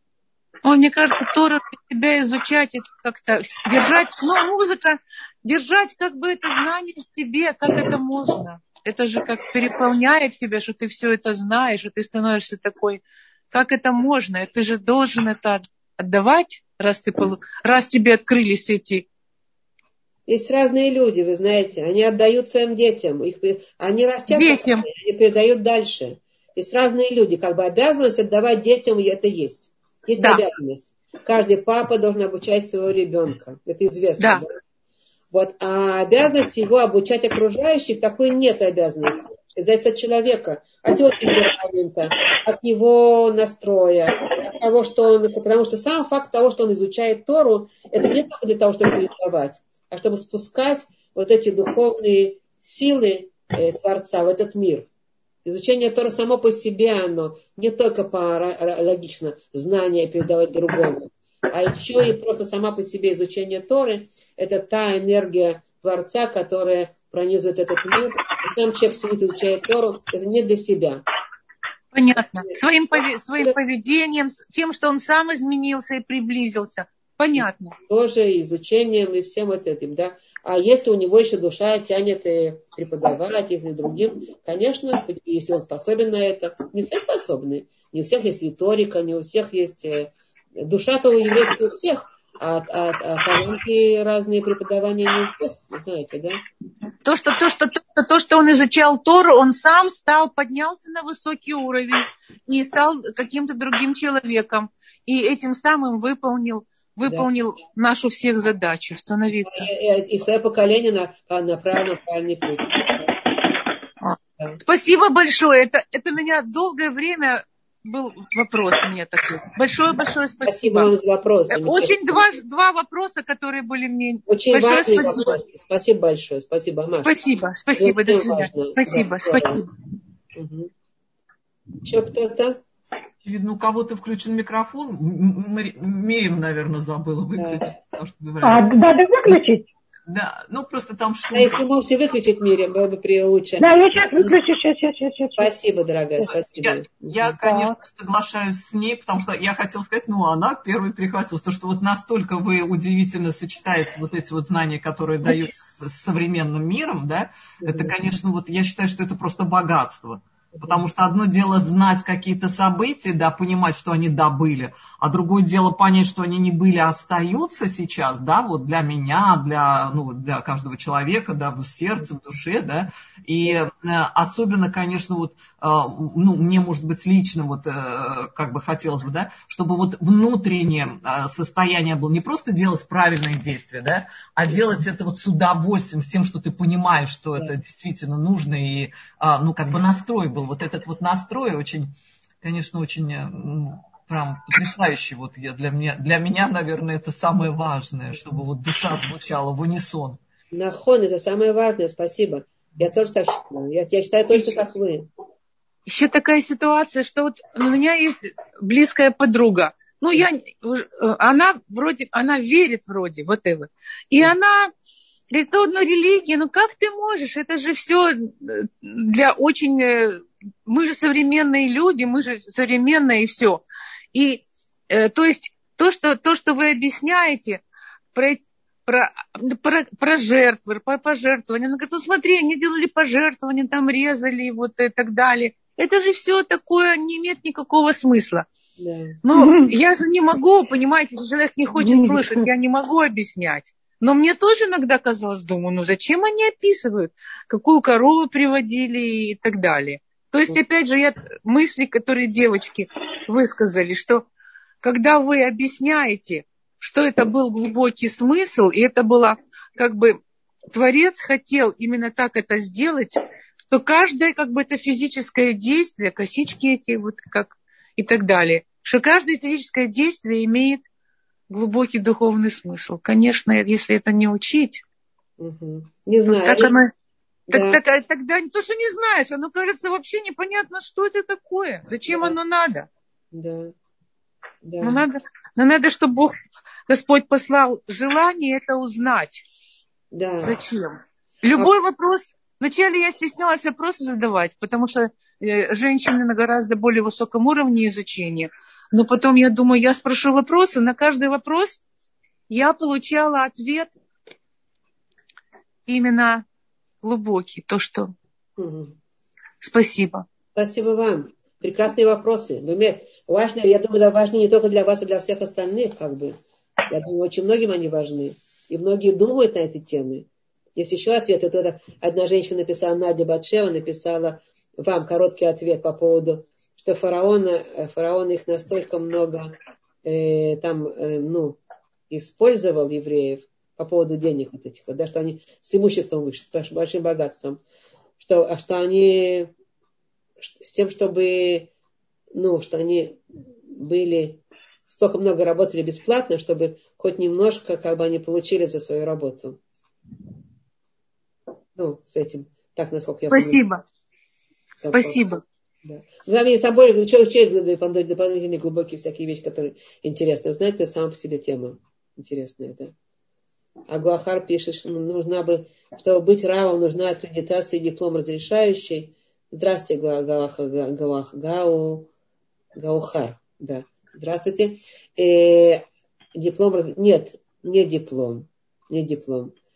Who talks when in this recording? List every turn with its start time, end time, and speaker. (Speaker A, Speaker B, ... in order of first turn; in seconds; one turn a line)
Speaker A: 0.6-19.1
Speaker B: 20.3-34.6
Speaker A: 24.3-24.9
Speaker B: 35.3-54.9
Speaker B: 55.4-71.0
Speaker A: 71.9-77.8
Speaker B: 77.4-96.4
Speaker A: 97.0-109.7
Speaker B: 109.5-113.2
Speaker A: 114.0-120.9
Speaker B: 120.4-122.1
Speaker A: 121.5-125.4
Speaker B: 124.3-127.1
Speaker A: 127.0-129.6
Speaker B: 127.8-129.6
Speaker B: 130.3-130.7
Speaker B: 131.8-132.6
Speaker C: 133.2-138.7
Speaker B: 137.4-137.6
Speaker D: 138.4-139.7
Speaker C: 140.1-141.6
Speaker B: 141.3-144.4
Speaker D: 143.6-145.5
Speaker B: 145.4-147.4
Speaker C: 146.5-200.2
Speaker D: 147.4-147.8
Speaker B: 157.6-157.9
Speaker B: 160.6-160.8
Speaker B: 200.5-205.1
Speaker A: 205.8-214.7
Speaker A: 215.3-227.6
Speaker A: 228.1-238.4
Speaker B: 238.8-239.2
Speaker A: 239.2-254.2
Speaker D: 239.3-239.7
Speaker D: 241.8-242.5
Speaker A: 254.8-270.9
Speaker A: 271.5-274.8
Speaker B: 275.4-276.7
Speaker A: 276.4-276.9
Speaker B: 277.5-277.8
Speaker A: 277.5-282.9
Speaker B: 282.1-282.4
Speaker B: 283.3-283.7
Speaker B: 284.6-285.0
Speaker A: 284.8-286.3
Speaker A: 286.9-289.4
Speaker B: 290.1-290.6
Speaker A: 290.4-301.8
Speaker A: 302.5-303.9
Speaker A: 305.9-306.4
Speaker A: 307.0-308.1
Speaker B: 308.6-308.9
Speaker A: 309.6-310.2
Speaker B: 310.5-316.4
Speaker B: 316.9-329.5
Speaker B: 330.0-331.6
Speaker B: 332.1-337.6
Speaker B: 338.2-339.5
Speaker B: 340.4-341.7
Speaker B: 342.3-343.2
Speaker B: 343.7-349.6
Speaker B: 351.8-353.6
Speaker A: 353.3-353.8
Speaker B: 354.8-355.2
Speaker A: 354.8-355.4
Speaker B: 355.8-362.9
Speaker B: 363.9-372.1
Speaker B: 372.8-379.5